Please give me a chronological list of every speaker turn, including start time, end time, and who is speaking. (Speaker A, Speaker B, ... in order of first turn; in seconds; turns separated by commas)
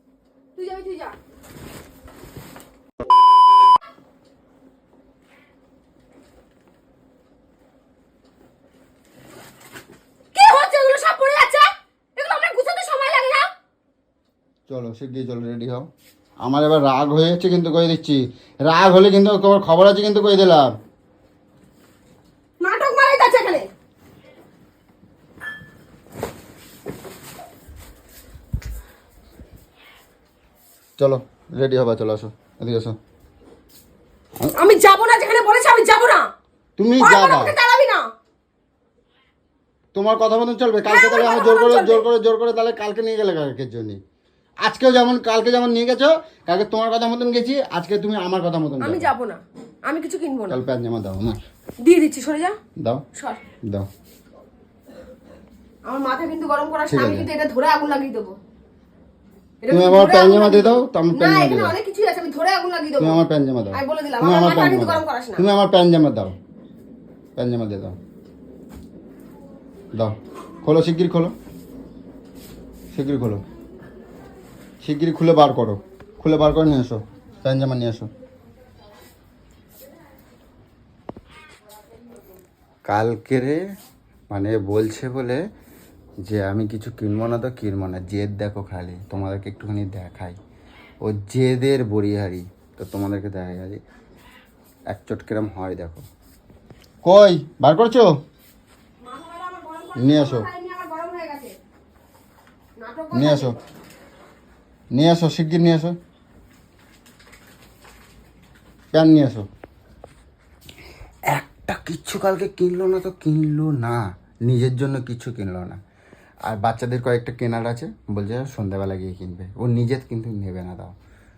Speaker A: 0.6-1.1, Speaker A: 10.3-13.5, Speaker B: 14.7-15.9, Speaker B: 16.4-20.7, Speaker A: 22.6-23.7, Speaker B: 31.0-33.0, Speaker B: 34.4-34.7, Speaker A: 34.5-36.3, Speaker B: 36.8-37.5, Speaker A: 37.0-38.1, Speaker B: 39.9-44.0, Speaker A: 40.8-42.0, Speaker B: 44.6-49.1, Speaker A: 48.8-50.6, Speaker B: 50.5-51.4, Speaker A: 51.8-52.6, Speaker B: 52.8-53.0, Speaker A: 55.9-58.4, Speaker B: 56.9-57.3, Speaker A: 59.6-63.2, Speaker B: 59.7-61.8, Speaker B: 63.0-66.3, Speaker A: 63.7-65.4, Speaker B: 67.4-68.0, Speaker B: 69.9-71.3, Speaker B: 72.9-73.4, Speaker B: 74.8-78.1, Speaker B: 82.9-83.6, Speaker B: 84.3-85.4, Speaker B: 86.2-90.4, Speaker B: 91.0-93.8, Speaker B: 94.9-96.1, Speaker B: 97.0-98.1, Speaker A: 99.0-101.5, Speaker B: 100.0-100.5, Speaker A: 102.8-103.5, Speaker B: 103.1-103.5, Speaker B: 104.9-106.0, Speaker B: 108.9-109.5, Speaker B: 111.3-115.8, Speaker B: 116.5-120.9